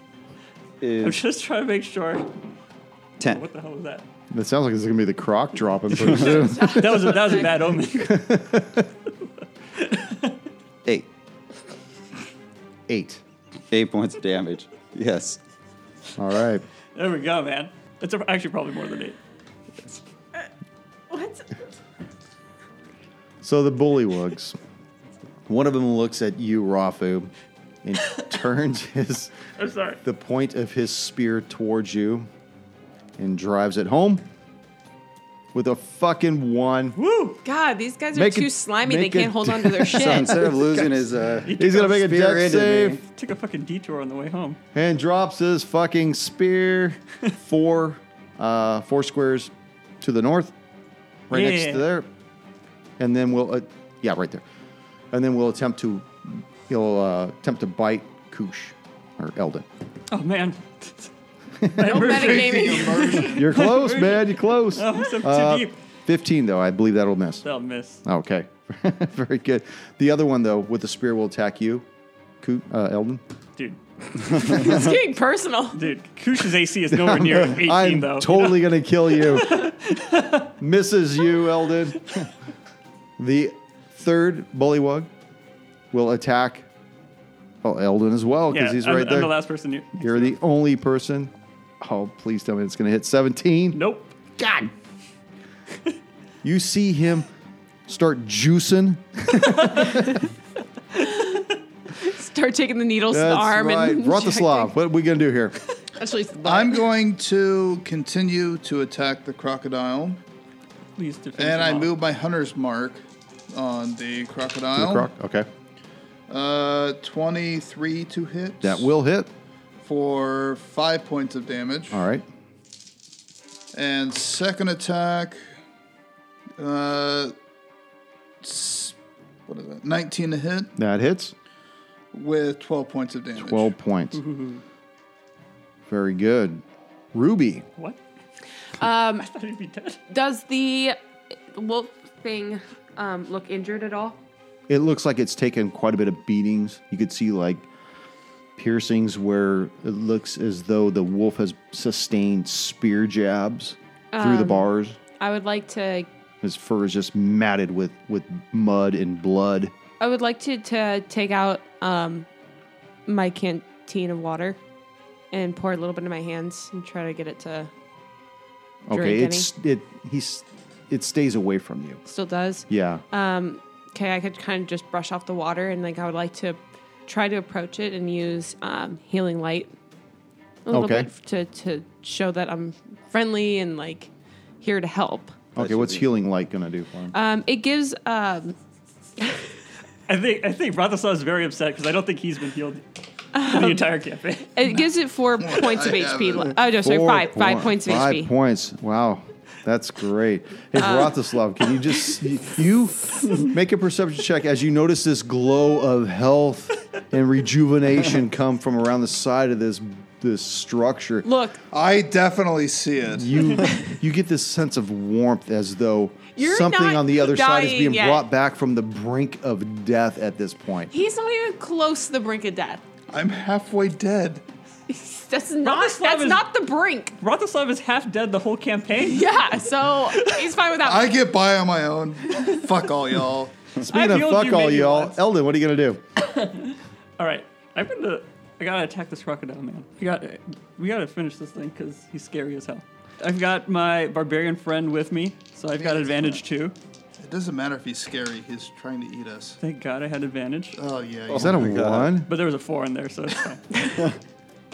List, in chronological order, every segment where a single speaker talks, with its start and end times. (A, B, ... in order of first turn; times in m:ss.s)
0:00.8-0:01.2 A
0:01.0-0:02.3 B
0:03.2-0:03.4 A
0:03.2-0:04.0 B
0:04.3-0:07.3 C
0:06.0-0:07.5 D
0:06.1-0:08.2 B
0:07.9-0:08.9 C
0:09.8-0:10.4 B
0:12.9-0:13.2 C
0:13.7-0:15.4 A
0:16.2-0:16.6 C
0:17.0-0:19.2 B
0:21.1-0:21.6 D
0:23.4-0:24.6 C
0:25.5-0:27.3 C
0:27.8-0:29.3 C
0:29.6-0:30.0 B
0:30.0-0:32.3 C
0:33.2-0:34.2 C
0:35.5-0:37.0 C
0:37.0-0:37.4 B
0:37.4-0:40.4 D
0:38.1-0:40.9 C
0:39.9-0:43.0 A
0:41.5-0:42.1 B
0:41.5-0:43.0 C
0:43.0-0:44.6 B
0:44.7-0:50.5 C
0:51.3-0:52.1 C
0:51.3-0:51.9 B
0:53.0-0:54.4 C
0:55.1-0:59.7 C
1:00.1-1:01.1 B
1:01.6-1:02.1 C
1:01.7-1:05.8 B
1:01.8-1:03.4 D
1:02.0-1:03.5 E
1:03.3-1:07.4 C
1:07.4-1:08.0 B
1:08.0-1:11.8 C
1:12.4-1:13.2 C
1:14.3-1:15.8 D
1:15.7-1:20.5 B
1:16.9-1:19.7 C
1:20.6-1:22.3 C
1:23.2-1:25.1 C
1:25.9-1:26.7 C
1:27.6-1:29.3 C
1:28.5-1:30.3 B
1:30.0-1:33.8 C
1:33.7-1:34.1 B
1:34.4-1:34.7 C
1:36.4-1:37.3 C
1:37.9-1:40.2 C
1:41.0-1:44.7 D
1:43.1-1:45.6 C
1:46.0-1:46.8 D
1:46.4-1:50.2 E
1:51.0-1:51.9 B
1:51.4-1:55.1 E
1:54.8-1:55.5 C
1:56.3-1:58.9 E
1:58.6-1:59.3 C
1:59.8-2:02.0 E
2:01.9-2:02.2 C
2:03.7-2:05.4 E
2:06.6-2:07.4 E
2:08.4-2:09.0 E
2:09.5-2:10.8 E
2:10.8-2:11.3 C
2:12.1-2:13.7 E
2:13.4-2:14.2 C
2:14.1-2:14.6 B
2:15.9-2:16.6 C
2:17.1-2:17.7 C
2:18.8-2:19.3 D
2:19.2-2:20.0 B
2:20.1-2:21.0 D
2:21.5-2:24.2 D
2:24.7-2:27.7 C
2:28.6-2:35.0 C
2:34.1-2:34.7 D
2:35.2-2:36.1 D
2:36.4-2:39.7 C
2:40.0-2:42.3 D
2:43.1-2:44.6 D
2:45.3-2:47.7 D
2:48.9-2:52.0 C
2:48.9-2:49.5 D
2:52.1-2:59.7 D
2:52.7-2:53.0 C
3:00.7-3:05.4 D
3:00.7-3:01.1 C
3:05.6-3:07.2 C
3:05.6-3:06.1 A
3:07.1-3:08.6 D
3:10.1-3:14.7 B
3:13.3-3:13.9 D
3:14.6-3:18.3 D
3:15.4-3:16.6 E
3:16.8-3:31.3 C
3:20.8-3:21.2 D
3:31.2-3:31.6 D
3:31.7-3:33.6 E
3:33.2-3:40.9 C
3:36.4-3:38.2 D
3:40.9-3:42.8 D
3:43.1-3:44.4 E
3:44.9-3:47.1 D
3:45.6-3:46.5 B
3:47.2-3:50.6 B
3:49.0-3:51.2 D
3:50.8-3:53.5 E
3:53.8-3:56.0 C
3:53.8-3:55.2 B
3:56.2-4:06.8 B
4:05.7-4:06.4 E
4:07.2-4:09.6 E
4:09.6-4:10.8 B
4:10.8-4:11.7 E
4:11.3-4:12.3 C
4:11.3-4:12.2 A
4:12.3-4:13.8 B